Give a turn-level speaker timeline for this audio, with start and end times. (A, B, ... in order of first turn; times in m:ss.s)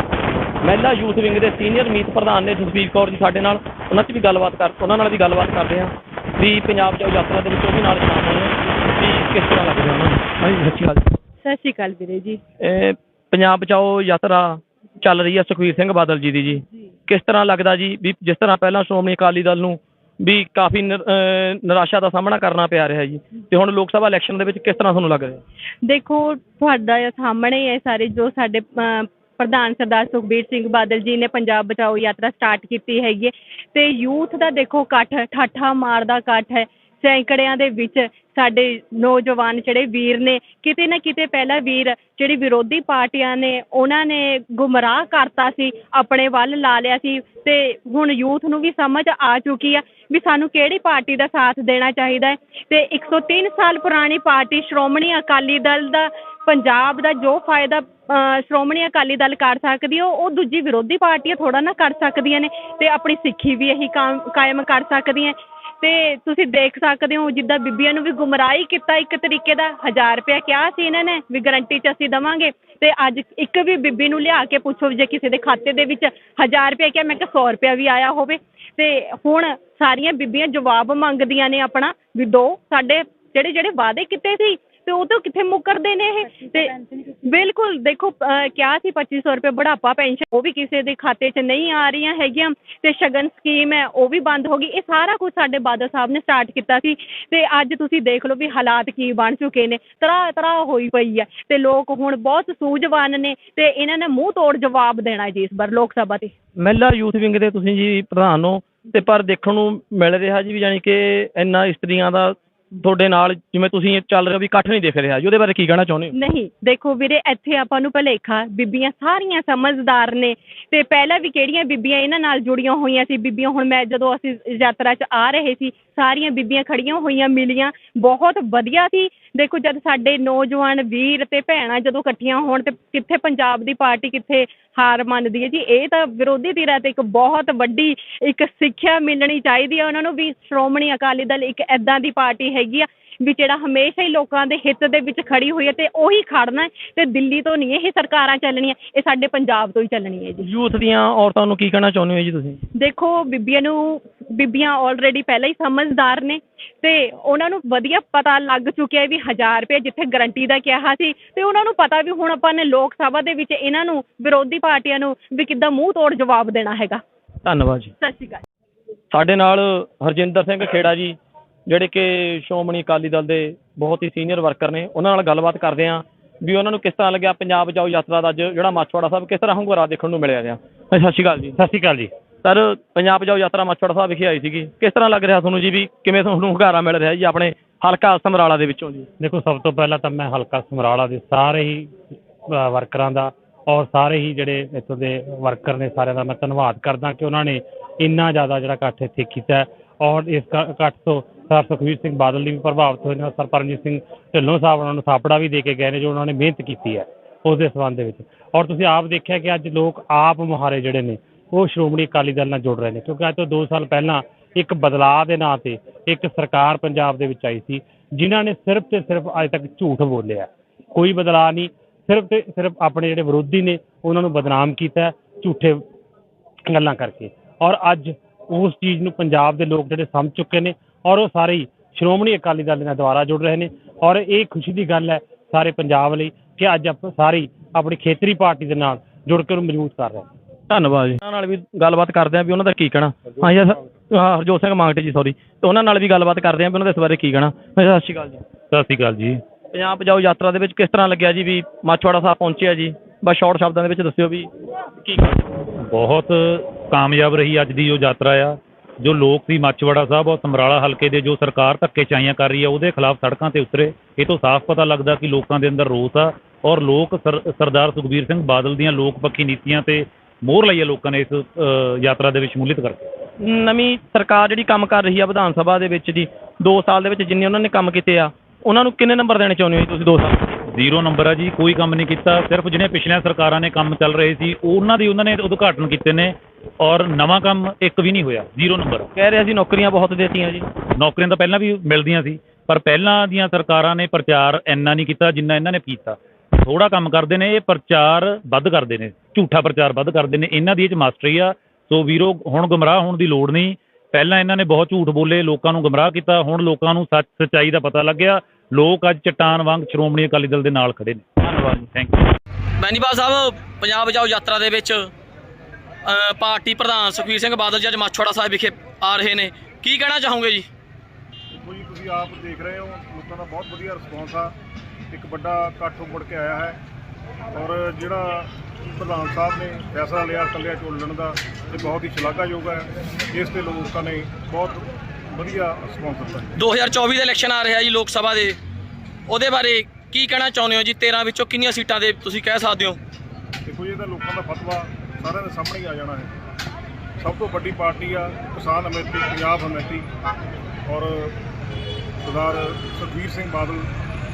0:00.6-0:11.1 A
0:11.4-0:12.4 B
0:12.6-0:25.4 A
0:25.8-1:46.3 B
1:46.6-1:56.2 A
1:56.2-2:30.5 B
2:30.4-2:32.6 A
2:32.8-2:47.0 B
2:47.4-2:47.9 A
2:48.0-2:48.4 B
2:49.1-2:51.2 A
2:51.7-3:01.6 A
3:01.6-3:02.1 C
3:02.4-3:09.1 A
3:09.2-3:11.9 C
3:12.5-3:45.8 C
3:46.7-4:00.3 C
4:00.7-4:08.4 A
4:08.7-4:09.4 D
4:09.7-4:14.5 A
4:15.8-4:33.1 D
4:33.4-4:40.4 A
4:40.7-4:49.1 D
4:49.2-4:50.6 A
4:51.0-5:11.3 D
5:11.9-5:12.3 D
5:12.8-5:15.1 E
5:16.1-5:20.6 E
5:21.6-5:24.5 F
5:25.1-5:26.8 F
5:27.5-5:36.6 F
5:36.6-5:38.6 E
5:39.3-5:43.0 E
5:43.7-5:46.3 F
5:47.2-5:50.1 F
5:50.9-5:51.3 F
5:52.2-5:53.9 F